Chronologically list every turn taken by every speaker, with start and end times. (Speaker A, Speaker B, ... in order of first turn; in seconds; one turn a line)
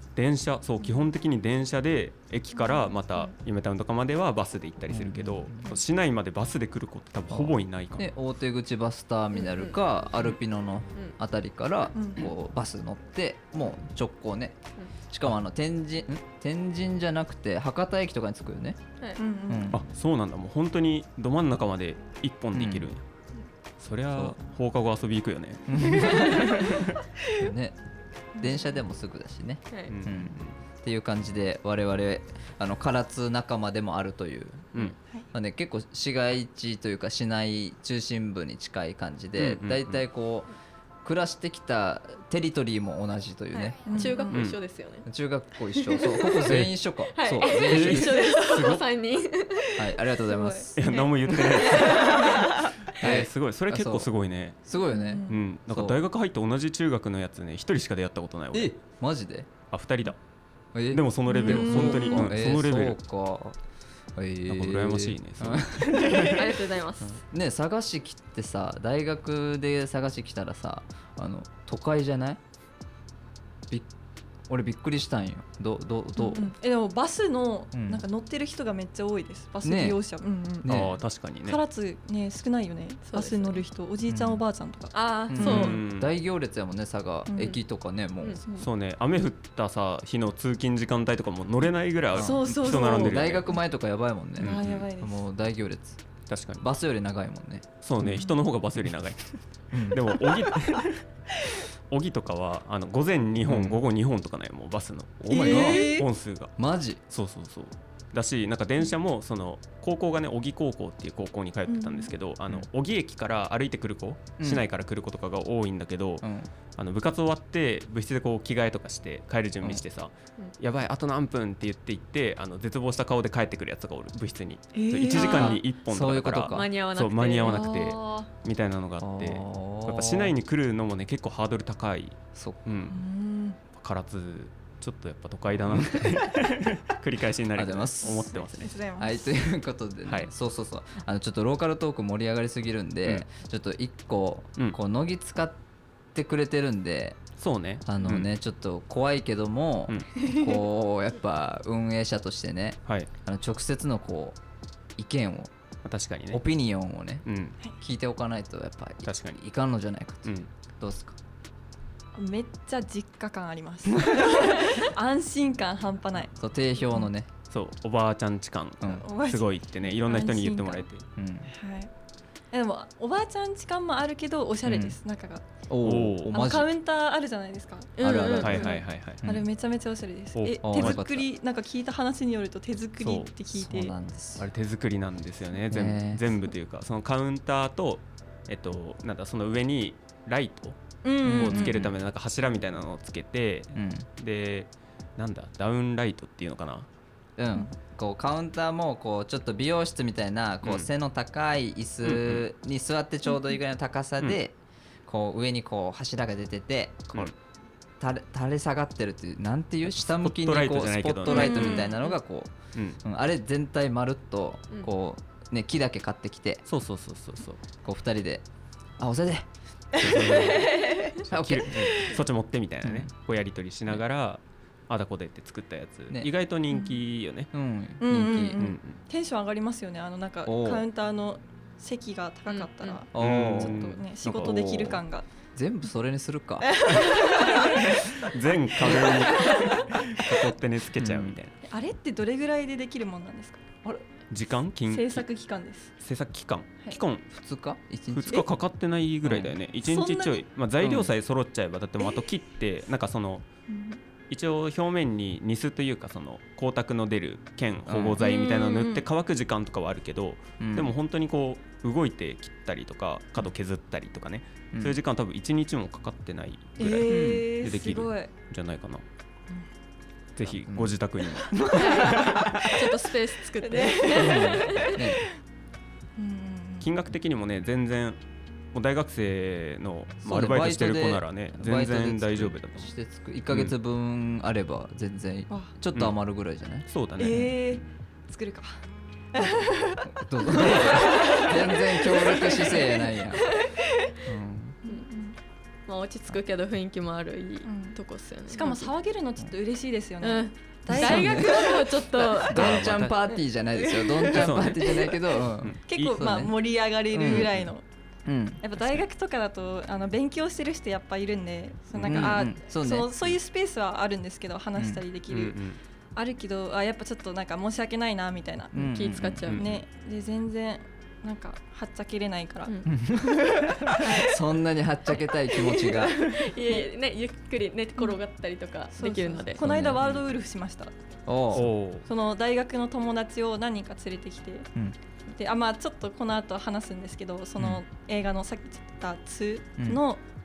Speaker A: 0.1-8.1
Speaker B: 2.6-2.9
Speaker C: 4.9-5.7
Speaker C: 7.3-14.6
Speaker D: 9.4-9.8
Speaker B: 11.9-12.3
Speaker C: 15.1-18.8
Speaker B: 19.2-19.8
Speaker C: 19.5-19.8
Speaker A: 19.7-23.0
Speaker C: 22.5-22.9
Speaker A: 23.8-26.8
Speaker C: 25.7-26.8
Speaker B: 25.9-26.7
Speaker C: 27.3-27.8
Speaker C: 28.4-40.5
Speaker B: 28.4-28.7
Speaker A: 29.9-30.6
Speaker A: 39.4-40.0
Speaker C: 41.0-44.1
Speaker D: 43.5-45.1
Speaker B: 43.9-44.5
Speaker A: 44.3-44.6
Speaker C: 45.0-48.3
Speaker D: 45.7-46.5
Speaker A: 46.5-46.7
Speaker D: 47.1-50.0
Speaker A: 47.4-48.9
Speaker C: 49.8-50.8
Speaker B: 50.3-50.7
Speaker A: 50.8-54.6
Speaker D: 50.8-52.7
Speaker C: 53.0-54.1
Speaker C: 54.6-56.0
Speaker B: 54.9-55.4
Speaker A: 55.3-58.8
Speaker C: 58.5-59.5
Speaker A: 59.7-60.2
Speaker C: 60.7-63.6
Speaker A: 60.9-63.0
Speaker B: 61.3-62.3
Speaker C: 64.2-66.5
Speaker A: 64.5-66.4
Speaker D: 66.1-67.2
Speaker C: 67.0-72.4
Speaker C: 74.5-76.5
Speaker B: 76.2-80.8
Speaker C: 77.7-78.0
Speaker C: 79.6-80.0
Speaker C: 80.6-81.0
Speaker A: 80.7-81.6
Speaker B: 81.5-85.8
Speaker D: 83.1-83.6
Speaker C: 84.1-84.4
Speaker D: 84.9-85.8
Speaker C: 85.3-88.4
Speaker A: 85.4-86.1
Speaker B: 87.3-87.6
Speaker A: 88.5-93.5
Speaker C: 92.2-96.0
Speaker B: 92.2-93.4
Speaker B: 94.4-95.2
Speaker A: 94.4-94.9
Speaker A: 96.3-96.7
Speaker C: 96.6-98.3
Speaker A: 97.8-101.0
Speaker C: 99.7-100.4
Speaker A: 101.9-106.5
Speaker C: 103.5-103.8
Speaker C: 105.3-106.0
Speaker B: 105.3-106.1
Speaker C: 106.6-107.0
Speaker A: 107.1-116.3
Speaker B: 111.7-112.1
Speaker C: 114.4-114.6
Speaker C: 116.2-116.5
Speaker A: 116.8-133.0
Speaker B: 124.7-125.6
Speaker C: 125.1-126.7
Speaker D: 125.1-125.5
Speaker D: 126.5-128.3
Speaker C: 129.0-130.3
Speaker C: 132.3-132.6
Speaker B: 132.9-133.6
Speaker A: 133.7-138.8
Speaker C: 135.7-136.1
Speaker C: 137.6-138.4
Speaker B: 138.3-139.4
Speaker C: 139.0-145.6
Speaker A: 140.1-140.3
Speaker C: 146.1-147.2
Speaker A: 147.4-148.3
Speaker C: 147.9-154.4
Speaker B: 150.2-150.5
Speaker C: 155.0-155.5
Speaker A: 155.8-156.4
Speaker C: 156.3-157.3
Speaker A: 157.2-157.6
Speaker C: 157.8-161.2
Speaker A: 159.0-159.4
Speaker A: 160.2-160.5
Speaker B: 162.2-166.3
Speaker C: 166.3-167.3
Speaker A: 167.5-171.0
Speaker C: 168.8-169.1
Speaker B: 169.0-170.9
Speaker C: 171.2-171.5
Speaker B: 171.4-171.9
Speaker B: 172.5-175.5
Speaker C: 174.7-175.0
Speaker C: 175.7-176.7
Speaker A: 175.8-176.4
Speaker B: 176.3-183.9
Speaker D: 178.0-178.7
Speaker C: 178.0-179.5
Speaker A: 178.4-179.3
Speaker A: 180.3-181.2
Speaker C: 180.6-181.1
Speaker A: 183.0-183.3
Speaker C: 183.5-184.5
Speaker A: 184.4-196.9
Speaker C: 185.7-186.3
Speaker B: 191.0-191.8
Speaker C: 191.2-191.9
Speaker C: 193.7-194.1
Speaker C: 197.4-204.6
Speaker A: 202.0-202.5
Speaker C: 205.1-207.3
Speaker C: 208.0-216.6
Speaker A: 209.9-211.9
Speaker B: 211.3-212.0
Speaker D: 211.7-212.2
Speaker A: 212.7-213.0
Speaker A: 216.7-217.6
Speaker C: 217.8-218.4
Speaker C: 219.0-220.5
Speaker A: 220.0-227.5
Speaker B: 220.1-221.1
Speaker C: 221.3-222.2
Speaker C: 222.8-223.1
Speaker B: 226.7-227.0
Speaker C: 227.5-228.7
Speaker B: 228.0-235.3
Speaker A: 228.6-229.0
Speaker C: 230.5-230.9
Speaker D: 232.5-233.0
Speaker C: 233.1-233.9
Speaker A: 233.2-235.0
Speaker C: 234.4-234.9
Speaker C: 235.6-236.9
Speaker B: 236.7-237.9
Speaker A: 237.4-241.6
Speaker C: 238.8-239.7
Speaker B: 238.9-239.8
Speaker C: 241.0-241.4
Speaker B: 241.7-243.7
Speaker A: 244.3-245.3
Speaker B: 244.9-245.9
Speaker A: 246.0-247.3
Speaker C: 247.3-248.5
Speaker A: 248.1-253.4
Speaker C: 249.2-249.5
Speaker B: 249.8-250.4
Speaker C: 250.8-251.1
Speaker B: 253.7-254.0
Speaker A: 254.3-269.0
Speaker C: 257.9-258.2
Speaker B: 258.2-259.1
Speaker C: 260.6-260.9
Speaker C: 264.7-265.0
Speaker B: 266.8-268.3
Speaker C: 267.1-267.5
Speaker A: 270.4-272.6
Speaker C: 270.6-271.0
Speaker C: 271.5-272.6
Speaker D: 271.7-275.1
Speaker B: 271.8-272.5
Speaker B: 273.6-275.0
Speaker C: 274.1-275.3
Speaker B: 276.2-276.9
Speaker A: 276.8-278.2
Speaker A: 278.7-282.9
Speaker C: 280.2-287.5
Speaker A: 283.5-283.8
Speaker A: 286.9-287.5
Speaker B: 287.2-288.8
Speaker B: 289.3-294.1
Speaker C: 290.1-293.6
Speaker C: 294.2-294.8
Speaker B: 294.9-295.4
Speaker D: 295.9-298.9
Speaker B: 297.6-298.0
Speaker B: 298.5-302.5
Speaker D: 300.2-302.8
Speaker C: 300.9-301.7
Speaker C: 302.4-306.5
Speaker A: 302.5-303.2
Speaker A: 304.3-306.2
Speaker B: 305.9-307.9
Speaker C: 307.1-307.6
Speaker A: 307.3-307.7
Speaker C: 308.3-308.6
Speaker B: 308.6-315.6
Speaker A: 308.8-309.0
Speaker A: 312.0-312.3
Speaker C: 312.0-313.1
Speaker C: 314.8-315.0
Speaker A: 315.3-315.8
Speaker B: 316.1-318.9
Speaker C: 318.7-319.6
Speaker D: 318.8-319.7
Speaker A: 319.5-319.8
Speaker B: 319.6-324.4
Speaker C: 322.9-326.3
Speaker D: 325.6-329.6
Speaker B: 326.2-326.8
Speaker B: 329.0-330.9
Speaker C: 329.6-330.1
Speaker C: 331.3-331.7
Speaker A: 331.5-332.1
Speaker B: 332.1-334.7
Speaker B: 335.3-340.2